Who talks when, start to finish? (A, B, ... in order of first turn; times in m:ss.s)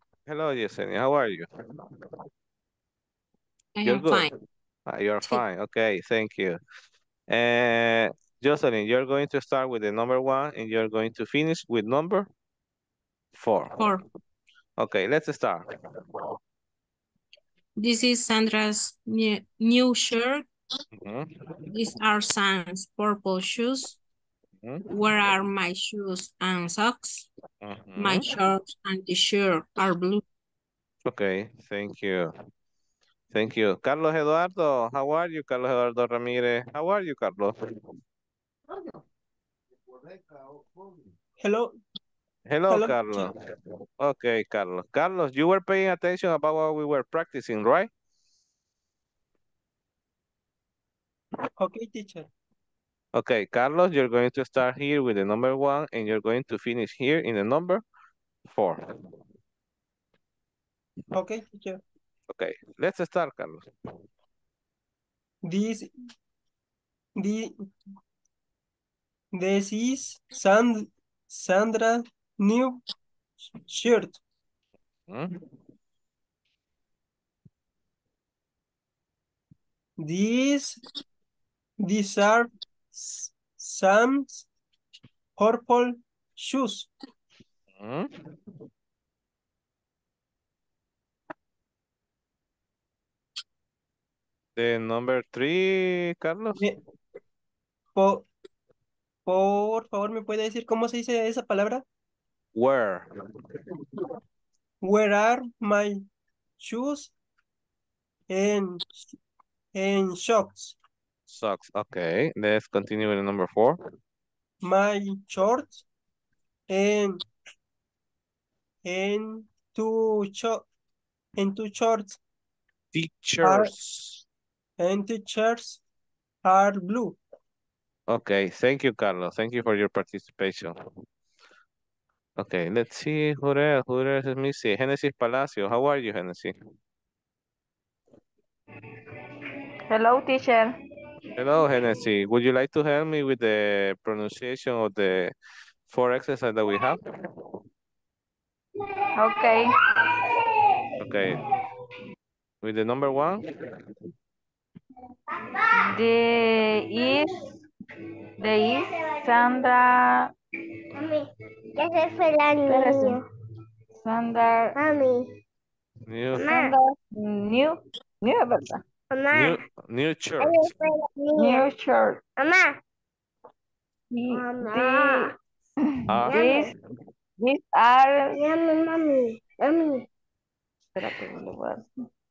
0:00.3-0:01.5 A
0:03.8-0:04.3 B
0:03.8-0:04.3 A
0:04.9-0:06.6 A
0:07.3-0:12.3 A
0:13.4-0:13.8 A
0:13.8-0:14.0 B
0:14.8-0:15.7 A
0:17.8-0:20.4 B
0:21.0-0:21.3 A
0:21.7-0:24.0 B
0:24.9-0:27.3 B
0:27.6-0:28.3 A
0:28.0-0:30.2 B
0:31.1-0:32.3 A
0:33.3-0:37.6 A
0:41.4-0:41.7 C
0:42.5-0:43.4 A
0:42.7-0:43.3 C
0:44.0-0:47.9 A
0:51.6-0:52.3 C
0:53.1-0:57.8 A
0:58.5-0:58.8 A
1:01.1-1:01.8 C
1:02.3-1:03.6 A
1:05.4-1:05.9 C
1:07.2-1:07.7 C
1:09.3-1:12.8 C
1:13.6-1:14.2 C
1:15.1-1:15.4 A
1:20.0-1:20.8 C
1:21.8-1:24.5 C
1:25.4-1:26.9 C
1:27.8-1:28.3 A
1:34.6-1:36.6 A
1:37.9-1:38.3 C
1:39.3-1:41.8 C
1:42.6-1:43.1 A
1:44.8-1:46.1 C
1:46.6-1:47.1 C
1:48.3-1:49.0 C
1:49.7-1:50.8 C
1:51.3-1:53.8 A
1:54.6-1:55.8 C
1:56.7-1:57.2 C
1:58.8-2:00.6 C
2:01.4-2:02.2 C
2:02.9-2:04.2 A
2:03.4-2:03.7 C
2:04.8-2:05.8 C
2:06.4-2:07.2 C
2:08.1-2:10.8 A
2:12.4-2:16.5 A
2:19.9-2:20.7 D
2:21.4-2:25.3 A
2:25.9-2:27.0 A
2:29.2-2:29.7 D
2:31.0-2:31.4 A
2:32.6-2:33.4 A
2:35.9-2:37.3 D
2:38.4-2:40.3 D
2:41.0-2:43.2 E
2:42.6-2:43.2 D
2:44.0-2:44.7 D
2:44.8-2:45.2 E
2:46.1-2:46.4 A
2:46.4-2:48.8 D
2:46.4-2:46.8 E
2:49.1-2:49.6 E
2:49.3-2:50.7 A
2:50.4-2:51.7 E
2:51.3-2:52.2 D
2:52.4-2:52.8 E
2:54.1-2:55.3 D
2:54.3-2:55.3 E
2:56.1-2:56.7 A
2:56.3-2:56.7 E
2:56.3-2:56.7 D
2:57.4-2:58.4 D
2:58.3-3:00.0 E
3:00.9-3:01.9 D